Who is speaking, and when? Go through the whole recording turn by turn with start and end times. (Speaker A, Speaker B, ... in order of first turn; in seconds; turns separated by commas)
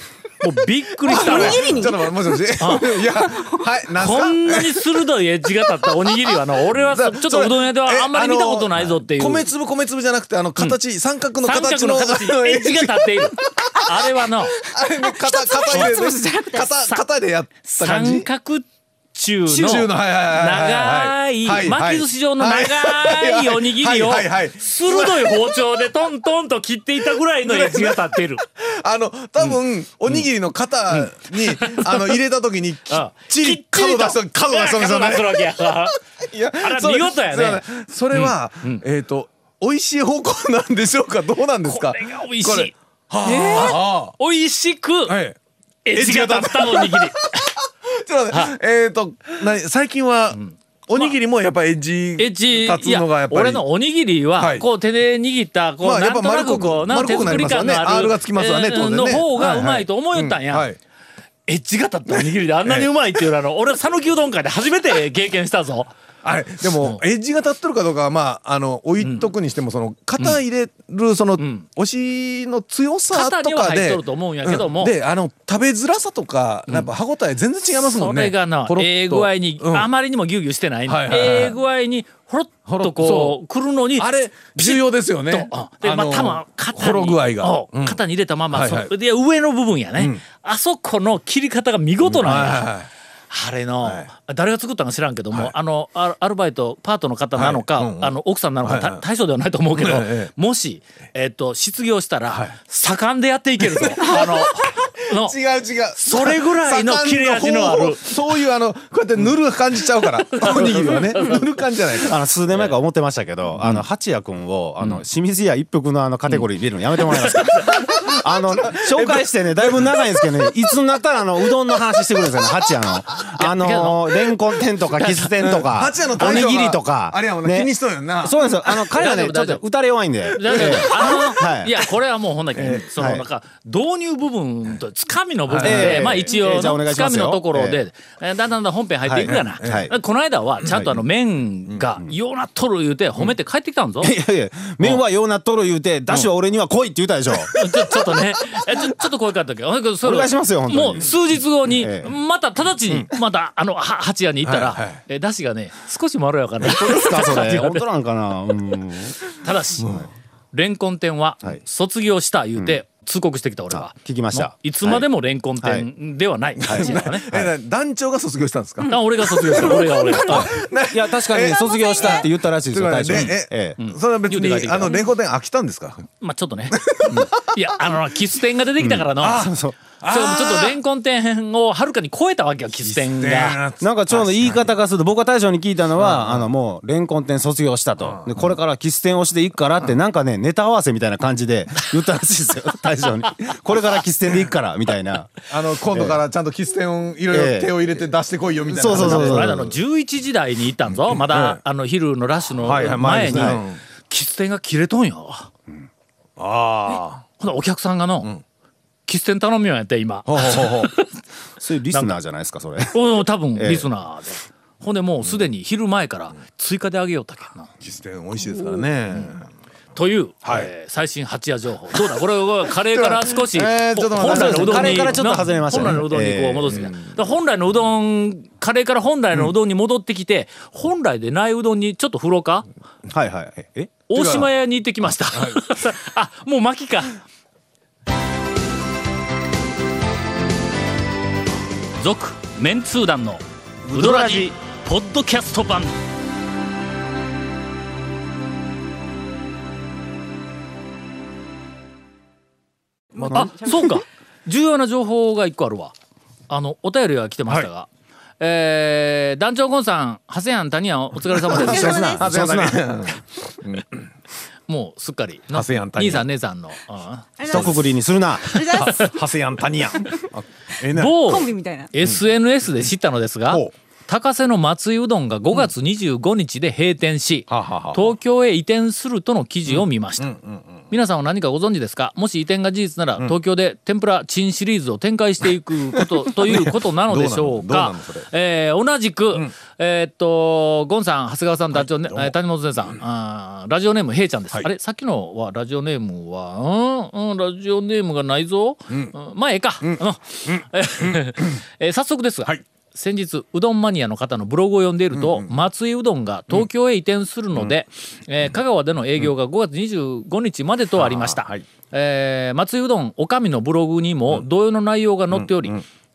Speaker A: 0.4-1.8, Speaker B: 1.1-4.8, Speaker C: 1.1-3.7, Speaker A: 2.6-2.9, Speaker A: 4.0-9.4, Speaker B: 6.7-13.8, Speaker A: 11.4-14.6, Speaker B: 14.6-18.3, Speaker C: 15.0-16.7, Speaker A: 17.6-28.4, Speaker B: 19.5-25.6, Speaker B: 27.4-44.1, Speaker A: 29.4-30.3, Speaker A: 30.9-32.2, Speaker A: 32.9-36.0, Speaker A: 36.6-38.8, Speaker A: 41.6-42.7, Speaker A: 43.2-45.2, Speaker B: 45.1-45.4, Speaker A: 45.9-47.5, Speaker B: 46.0-47.4, Speaker B: 47.9-53.6, Speaker A: 50.3-51.1, Speaker A: 52.2-60.7, Speaker B: 54.4-54.7, Speaker B: 55.8-60.8, Speaker A: 61.5-65.9, Speaker B: 62.1-62.9, Speaker B: 66.2-79.9, Speaker A: 69.0-69.3, Speaker A: 71.4-71.7, Speaker A: 73.1-75.0, Speaker A: 77.8-92.7, Speaker B: 80.9-81.6, Speaker B: 82.7-83.4, Speaker B: 84.0-88.0, Speaker B: 88.5-88.9, Speaker B: 92.0-92.9, Speaker A: 93.3-105.4, Speaker B: 93.8-94.1, Speaker B: 97.4-99.0, Speaker B: 99.8-100.3, Speaker B: 103.6-112.2, Speaker A: 106.0-108.1, Speaker A: 110.3-111.4, Speaker D: 112.0-131.7, Speaker A: 117.2-117.8, Speaker B: 117.8-118.1, Speaker B: 118.7-120.0, Speaker A: 123.4-124.3, Speaker A: 125.0-125.3, Speaker B: 125.4-129.0, Speaker A: 129.0-129.6, Speaker A: 130.4-144.1, Speaker B: 130.5-131.2, Speaker B: 132.6-132.8, Speaker D: 132.9-133.2, Speaker B: 135.5-136.2, Speaker D: 135.6-137.8, Speaker D: 139.1-139.9, Speaker B: 139.3-139.9, Speaker D: 140.7-141.0, Speaker D: 144.0-147.6, Speaker A: 147.5-157.9, Speaker D: 150.0-151.1, Speaker D: 151.7-152.1, Speaker B: 154.4-155.0, Speaker D: 156.6-159.2, Speaker A: 159.4-159.9, Speaker B: 159.8-160.1, Speaker A: 160.5-167.3, Speaker D: 163.7-165.1, Speaker D: 165.6-165.9, Speaker B: 166.6-176.1, Speaker D: 166.7-167.5, Speaker A: 168.9-170.5, Speaker D: 170.9-175.0, Speaker C: 171.5-172.3, Speaker A: 173.1-174.9, Speaker A: 176.2-179.5, Speaker B: 176.7-177.6, Speaker D: 178.8-179.8, Speaker B: 179.2-180.8, Speaker A: 180.1-183.6, Speaker B: 182.8-184.7, Speaker D: 183.8-195.4, Speaker B: 186.0-186.5, Speaker B: 188.0-188.4, Speaker B: 195.5-199.6, Speaker D: 195.9-196.2, Speaker D: 197.3-197.8, Speaker D: 198.7-199.8, Speaker A: 198.9-205.5, Speaker B: 200.9-201.6, Speaker B: 202.6-203.8, Speaker D: 202.8-203.6, Speaker B: 206.4-207.2, Speaker A: 207.4-208.3, Speaker A: 209.1-211.1, Speaker B: 210.3-210.9, Speaker D: 211.6-213.0, Speaker A: 211.9-212.2, Speaker A: 212.9-217.7, Speaker D: 213.6-213.9, Speaker B: 217.8-219.5, Speaker A: 220.0-232.7, Speaker B: 220.4-220.7, Speaker B: 222.9-226.0, Speaker D: 224.2-226.9, Speaker B: 226.7-227.2, Speaker D: 233.1-233.9, Speaker A: 234.1-237.2, Speaker B: 234.1-234.5, Speaker B: 235.3-235.7, Speaker A: 242.0-245.9, Speaker D: 243.9-244.5, Speaker C: 253.2-254.0, Speaker A: 253.3-255.9, Speaker A: 256.5-257.9, Speaker A: 258.4-262.2, Speaker B: 261.4-264.0, Speaker C: 261.5-262.2, Speaker D: 261.6-262.9, Speaker A: 264.7-267.3, Speaker B: 265.5-266.3, Speaker C: 267.4-267.8, Speaker D: 267.4-268.7, Speaker B: 267.5-267.8, Speaker C: 268.5-269.2, Speaker B: 268.6-271.3, Speaker A: 268.8-269.1, Speaker A: 270.9-280.3, Speaker C: 271.2-271.9, Speaker B: 277.5-278.1, Speaker B: 279.7-280.8, Speaker A: 280.9-315.8, Speaker B: 285.9-288.3, Speaker B: 291.7-292.3, Speaker B: 299.8-301.2, Speaker B: 305.1-305.6, Speaker B: 311.0-311.7, Speaker B: 315.3-315.8